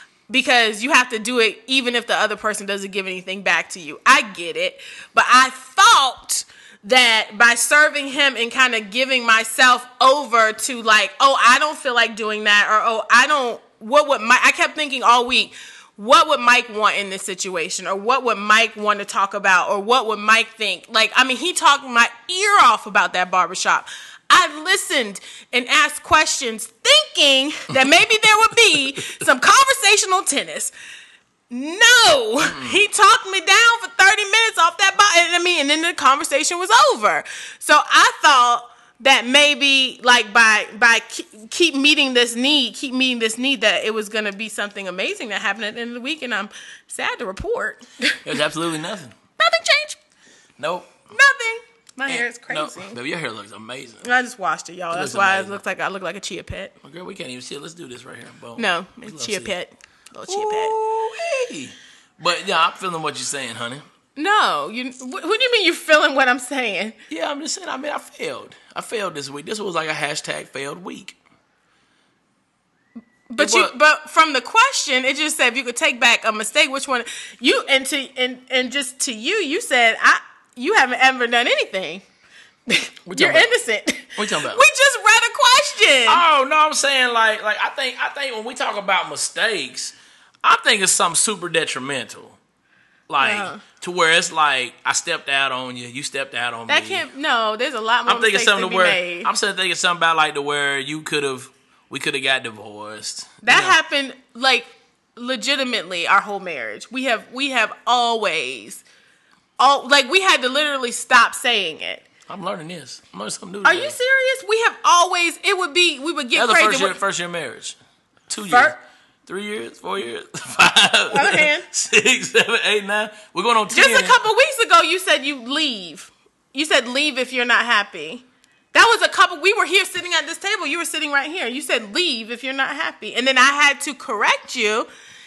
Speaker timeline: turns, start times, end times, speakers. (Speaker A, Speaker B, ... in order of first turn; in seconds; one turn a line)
Speaker A: 0.3-30.7
Speaker A: 31.5-48.2
Speaker B: 32.4-32.8
Speaker B: 48.2-49.2
Speaker A: 49.4-50.0
Speaker B: 50.6-51.0
Speaker A: 51.1-53.0
Speaker B: 52.1-54.1
Speaker A: 54.0-56.7
Speaker B: 54.9-55.6
Speaker B: 56.8-59.5
Speaker A: 58.6-60.7
Speaker B: 60.3-63.8
Speaker A: 64.2-67.0
Speaker B: 67.1-71.2
Speaker A: 73.3-82.0
Speaker B: 73.4-73.7
Speaker A: 82.7-86.2
Speaker B: 83.1-83.5
Speaker B: 84.2-84.6
Speaker B: 86.1-92.4
Speaker B: 93.1-97.0
Speaker A: 93.2-93.6
Speaker A: 96.7-99.3
Speaker B: 98.1-103.8
Speaker A: 103.4-108.8
Speaker A: 109.6-112.0
Speaker B: 112.3-114.0
Speaker A: 113.6-117.0
Speaker B: 116.3-117.8
Speaker B: 118.3-124.2
Speaker A: 118.5-118.8
Speaker A: 121.1-121.7
Speaker A: 123.7-134.9